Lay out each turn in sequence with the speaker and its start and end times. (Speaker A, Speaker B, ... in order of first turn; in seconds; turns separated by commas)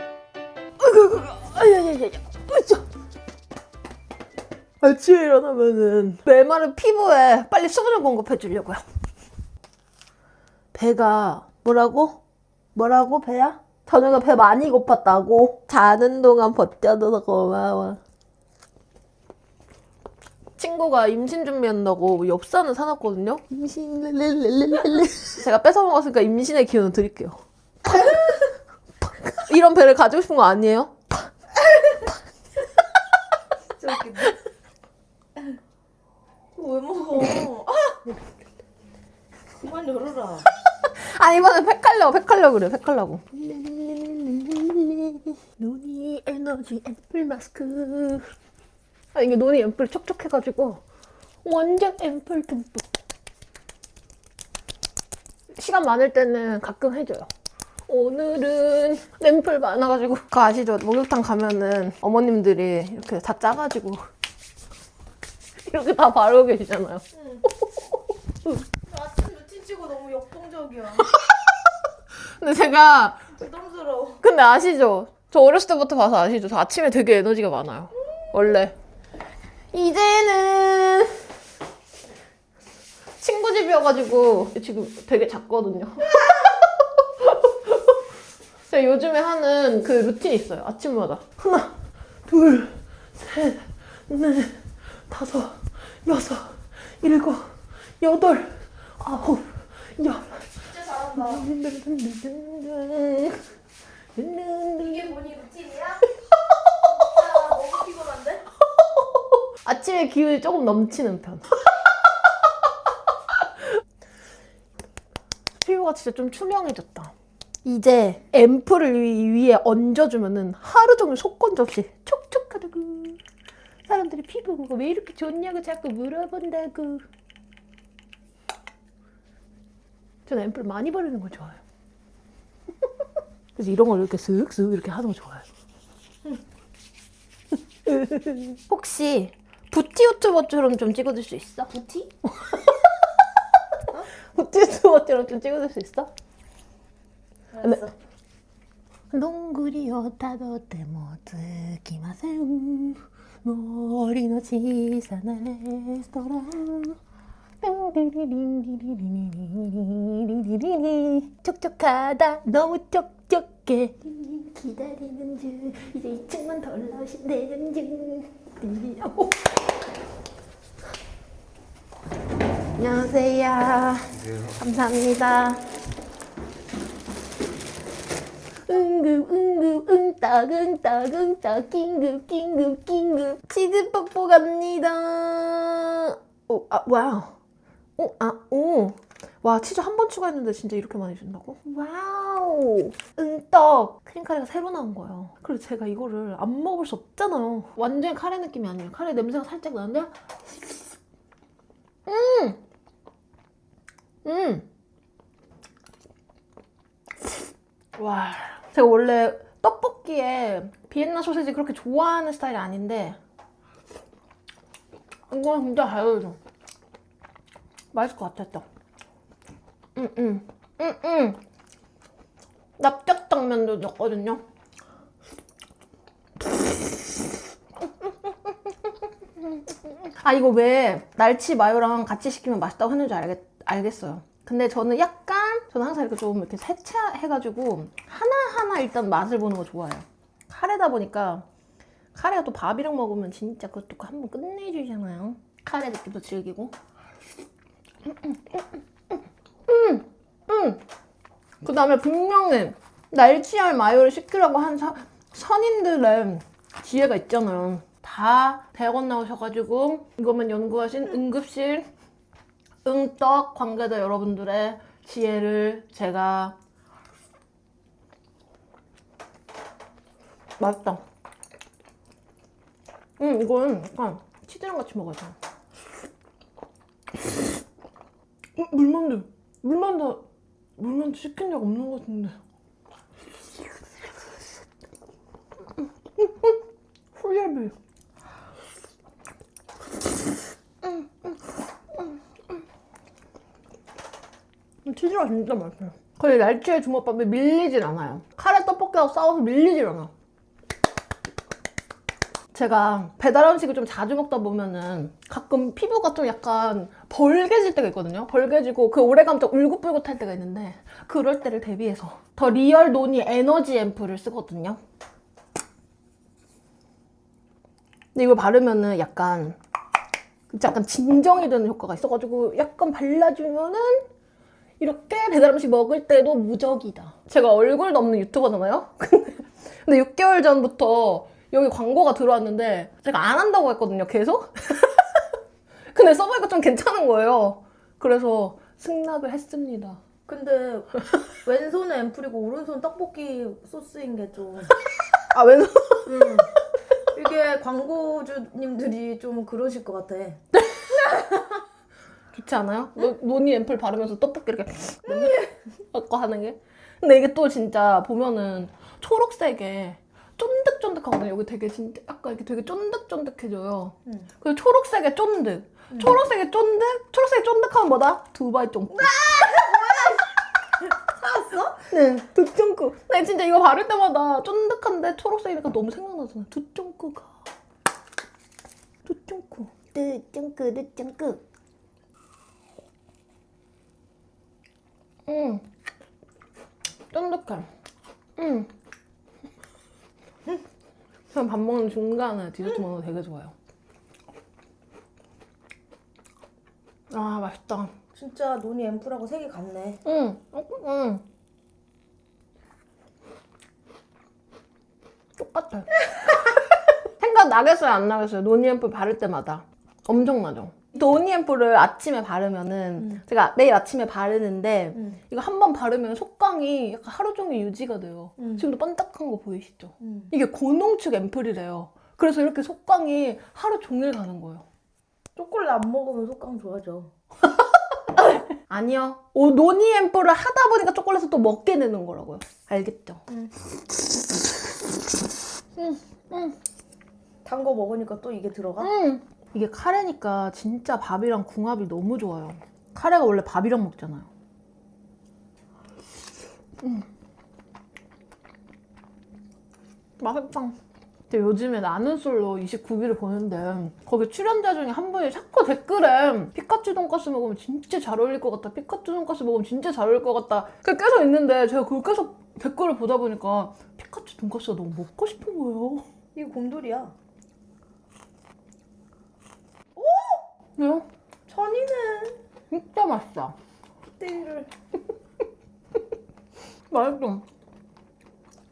Speaker A: 0.8-2.9, Speaker A: 4.8-8.8, Speaker A: 10.7-12.2, Speaker A: 12.8-18.0, Speaker A: 20.6-28.4, Speaker A: 29.2-31.3, Speaker B: 33.8-34.4, Speaker B: 36.5-38.0, Speaker B: 39.6-40.5, Speaker A: 40.8-48.3, Speaker A: 49.1-50.8, Speaker A: 51.4-52.9, Speaker A: 55.6-57.3, Speaker A: 57.9-64.0, Speaker A: 65.6-68.6, Speaker B: 67.2-67.4, Speaker B: 68.8-71.1, Speaker A: 72.2-73.3, Speaker B: 73.4-74.2, Speaker A: 74.2-78.8, Speaker A: 79.7-81.3, Speaker A: 83.2-86.6, Speaker A: 87.2-87.8, Speaker A: 88.7-91.7, Speaker A: 92.3-103.4, Speaker B: 100.7-101.4, Speaker A: 104.2-105.4, Speaker B: 105.0-106.0, Speaker B: 106.9-108.4, Speaker A: 109.6-111.5, Speaker A: 115.6-117.1, Speaker A: 117.7-123.2, Speaker A: 123.9-127.0, Speaker A: 130.3-131.6, Speaker A: 133.6-135.5, Speaker A: 137.9-141.7, Speaker B: 141.7-142.1, Speaker A: 142.3-142.8, Speaker A: 144.3-146.1, Speaker B: 147.5-147.9, Speaker A: 147.6-147.9, Speaker A: 149.1-157.0, Speaker A: 157.6-169.5, Speaker A: 172.8-175.6, Speaker A: 178.7-187.3, Speaker A: 188.0-200.1, Speaker A: 202.1-202.6, Speaker A: 204.2-204.7, Speaker A: 208.0-213.2, Speaker A: 215.3-216.4, Speaker A: 217.9-218.7, Speaker A: 220.0-221.4, Speaker A: 222.8-224.4, Speaker A: 230.0-241.5, Speaker A: 242.1-246.7, Speaker A: 248.1-248.7, Speaker A: 249.7-250.8, Speaker A: 251.6-261.9, Speaker A: 262.9-266.6, Speaker A: 270.6-271.0, Speaker A: 273.2-275.4, Speaker A: 278.6-280.2, Speaker A: 280.8-282.4, Speaker A: 286.2-286.6, Speaker A: 287.1-287.8, Speaker A: 290.8-291.1, Speaker A: 294.9-300.1, Speaker A: 302.5-314.8, Speaker A: 318.1-319.6, Speaker A: 320.5-324.1, Speaker A: 324.8-335.1, Speaker A: 335.9-340.0, Speaker B: 340.3-340.9, Speaker B: 341.4-344.8, Speaker A: 345.3-346.4, Speaker B: 346.1-346.5, Speaker B: 347.1-350.4, Speaker B: 350.9-351.4, Speaker A: 352.3-370.1, Speaker B: 368.9-370.3, Speaker B: 370.9-371.8, Speaker A: 371.9-377.3, Speaker A: 379.1-381.4, Speaker A: 385.3-385.7, Speaker A: 387.1-387.7, Speaker A: 388.4-388.7, Speaker A: 391.3-393.6, Speaker A: 397.1-397.9, Speaker B: 398.1-400.0, Speaker A: 400.1-401.2, Speaker A: 405.4-406.4, Speaker A: 407.2-424.6, Speaker B: 418.4-418.7, Speaker B: 420.0-420.3, Speaker B: 425.4-427.1, Speaker A: 428.7-433.2, Speaker A: 435.8-436.6, Speaker B: 437.4-438.9, Speaker A: 438.8-444.3, Speaker A: 446.8-447.1, Speaker A: 450.2-450.8, Speaker A: 451.3-466.0, Speaker B: 466.4-467.1, Speaker B: 470.0-470.4, Speaker A: 470.8-471.1, Speaker B: 471.5-472.4, Speaker A: 472.7-473.6, Speaker B: 474.2-474.7, Speaker A: 476.9-477.4